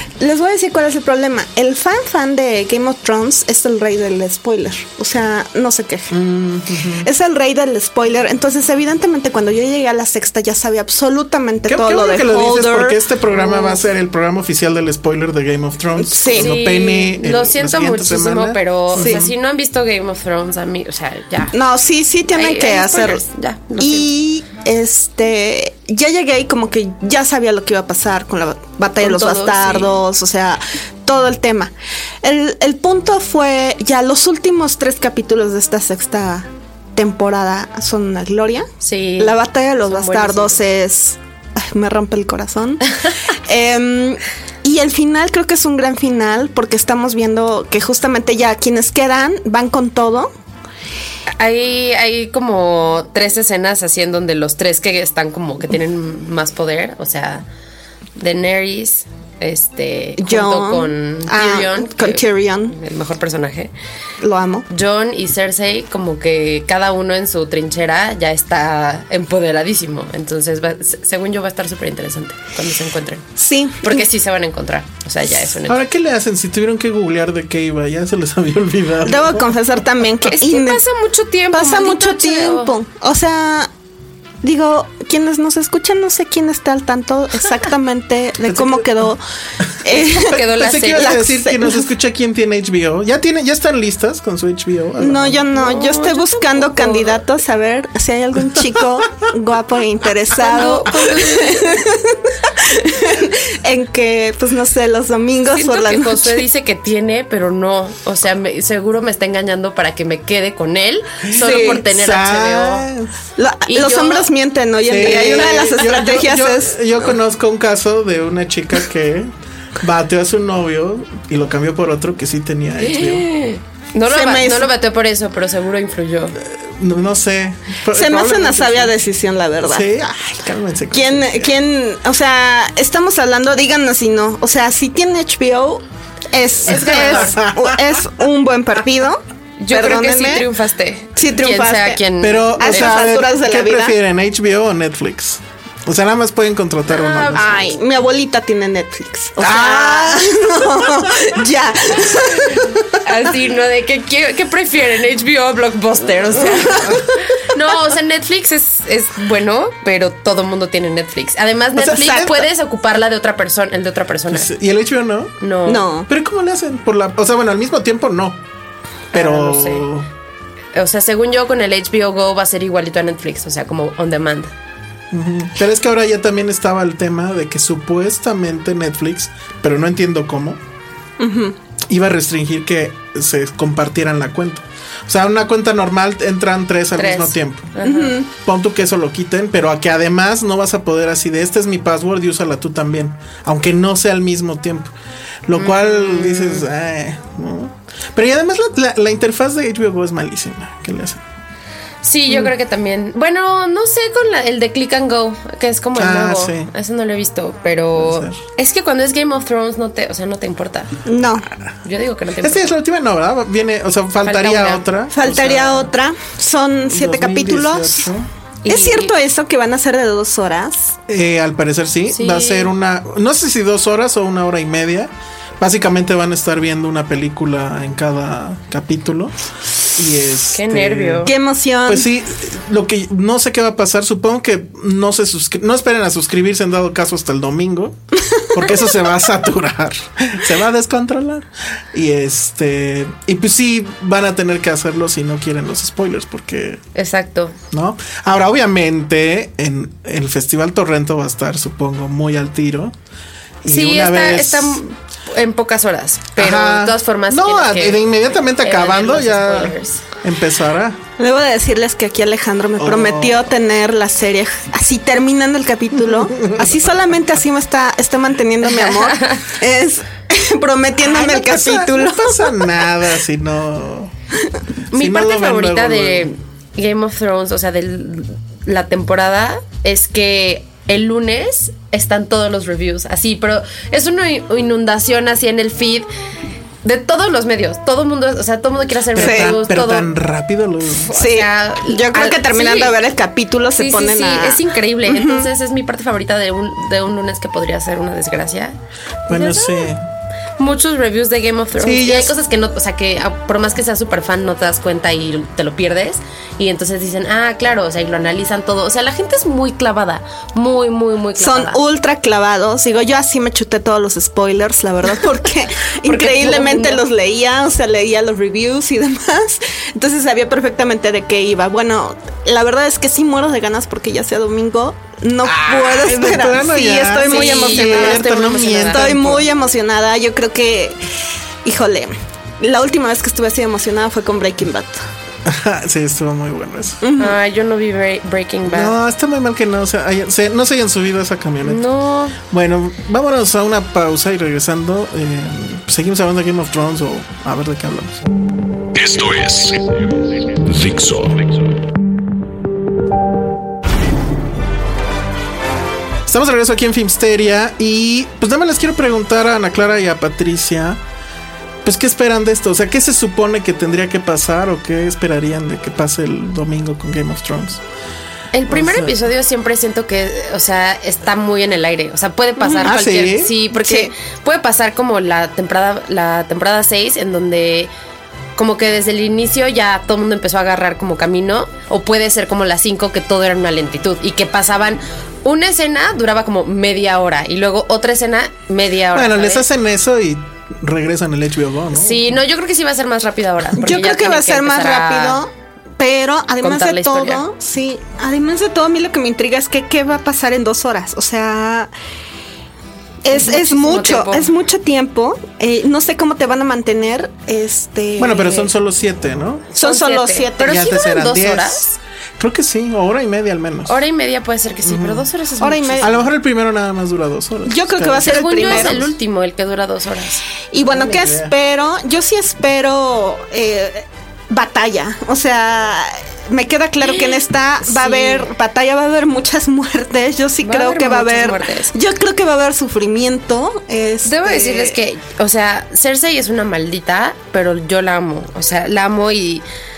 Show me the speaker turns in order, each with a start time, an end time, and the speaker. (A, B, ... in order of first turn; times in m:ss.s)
0:00.2-0:06.2 A
0:06.1-0:07.1 B
0:07.0-0:13.7 A
0:11.7-0:19.3 B
0:16.0-0:16.5 A
0:16.3-0:21.6 C
0:18.9-0:19.2 A
0:21.5-0:23.2 A
0:22.3-0:24.1 C
0:23.8-0:50.3 A
0:29.0-0:30.0 C
0:38.8-0:40.6 C
0:51.4-0:57.4 C
0:58.2-1:03.7 C
1:00.2-1:02.8 A
1:04.2-1:04.7 A
1:04.7-1:13.3 C
1:13.4-1:14.1 A
1:13.8-1:15.8 C
1:15.7-1:19.5 B
1:19.0-1:20.8 A
1:20.2-1:22.7 C
1:21.5-1:23.7 A
1:24.4-1:29.2 A
1:28.5-1:28.9 B
1:29.8-1:30.4 A
1:29.9-1:31.6 C
1:30.0-1:35.4 B
1:30.9-1:31.8 A
1:35.0-1:46.4 A
1:35.5-1:37.2 C
1:40.3-1:41.8 C
1:45.5-1:52.9 C
1:51.2-1:53.1 B
1:51.4-1:51.8 A
1:53.4-1:56.8 A
1:53.7-1:54.3 C
1:54.9-2:03.3 B
1:55.0-1:55.8 C
2:02.8-2:06.4 C
2:04.1-2:04.7 A
2:06.4-2:09.0 B
2:07.9-2:09.9 A
2:09.6-2:11.6 B
2:10.9-2:20.5 A
2:16.7-2:17.4 C
2:16.7-2:18.0 B
2:19.6-2:23.0 C
2:21.2-2:22.0 A
2:22.2-2:27.6 B
2:22.6-2:24.0 A
2:26.9-2:27.7 C
2:27.4-2:32.9 A
2:29.4-2:30.3 B
2:29.5-2:29.8 C
2:30.8-2:31.2 B
2:33.0-2:44.5 C
2:41.8-2:42.5 B
2:44.3-2:45.3 B
2:45.4-2:45.9 C
2:45.7-2:46.1 A
2:46.1-2:48.4 B
2:49.1-2:50.1 B
2:49.1-2:49.9 C
2:50.8-2:54.5 C
2:55.1-3:00.6 B
3:01.2-3:01.6 A
3:01.9-3:07.7 B
3:07.0-3:08.2 C
3:07.8-3:08.3 A
3:08.4-3:14.9 B
3:15.5-3:21.2 B
3:15.6-3:16.7 C
3:22.0-3:30.9 C
3:26.0-3:26.7 B
3:28.0-3:28.4 B
3:31.1-3:31.5 A
3:31.8-3:32.7 C
3:32.4-3:35.9 B
3:34.2-3:34.8 C
3:35.1-3:38.1 A
3:36.9-3:38.3 B
3:38.6-3:39.1 C
3:38.7-3:41.0 A
3:41.1-3:49.3 B
3:42.1-3:42.7 C
3:50.0-3:51.3 B
3:50.5-3:51.3 C
3:51.2-3:52.1 A
3:51.8-3:58.0 B
3:58.5-4:06.8 B
4:07.0-4:07.6 C
4:07.7-4:13.0 B
4:13.6-4:14.8 B
4:13.7-4:18.1 C
4:16.4-4:21.0 B
4:18.6-4:20.0 C
4:21.2-4:32.7 A
4:22.8-4:23.5 B
4:26.0-4:26.7 B
4:28.7-4:29.4 C
4:31.0-4:34.1 B
4:34.9-4:36.3 B
4:34.9-4:46.1 C
4:46.8-4:50.1 C
4:49.1-4:51.1 B
4:49.2-4:49.6 A
4:51.1-4:53.0 C
4:51.1-4:55.5 A
4:53.8-4:58.8 C
4:59.3-4:59.9 C
4:59.3-5:00.0 B
5:00.6-5:11.8 C
5:01.8-5:02.3 B
5:11.4-5:31.0 A
5:16.0-5:17.0 C
5:25.4-5:29.5 B
5:27.2-5:29.1 C
5:31.6-5:35.0 A
5:35.4-5:37.0 B
5:37.0-5:37.4 A
5:37.2-5:39.0 C
5:38.7-5:41.8 B
5:41.6-5:42.4 C
5:42.5-5:48.2 B
5:48.9-5:51.6 D
5:56.3-6:01.0 B
6:01.8-6:07.8 B
6:08.5-6:17.9 C
6:08.7-6:09.2 B
6:12.6-6:13.0 A
6:12.8-6:13.5 B
6:13.7-6:14.1 A
6:18.6-6:29.6 C
6:29.1-6:32.3 B
6:31.9-6:35.4 C
6:33.8-6:41.9 A
6:36.6-6:37.4 C
6:43.2-6:48.7 A
6:43.3-6:44.5 C
6:48.2-6:49.7 B
6:49.7-6:52.0 C
6:49.8-6:50.9 A
6:50.6-6:51.9 B
6:52.4-6:54.0 B
6:53.9-6:56.2 C
6:54.8-6:55.3 B
6:55.6-6:56.2 A
6:56.0-6:59.1 B
6:57.7-6:59.1 A
6:58.2-7:00.4 C
7:00.7-7:15.0 A
7:00.9-7:01.5 B
7:07.0-7:08.5 C
7:10.6-7:11.9 C
7:14.2-7:19.6 C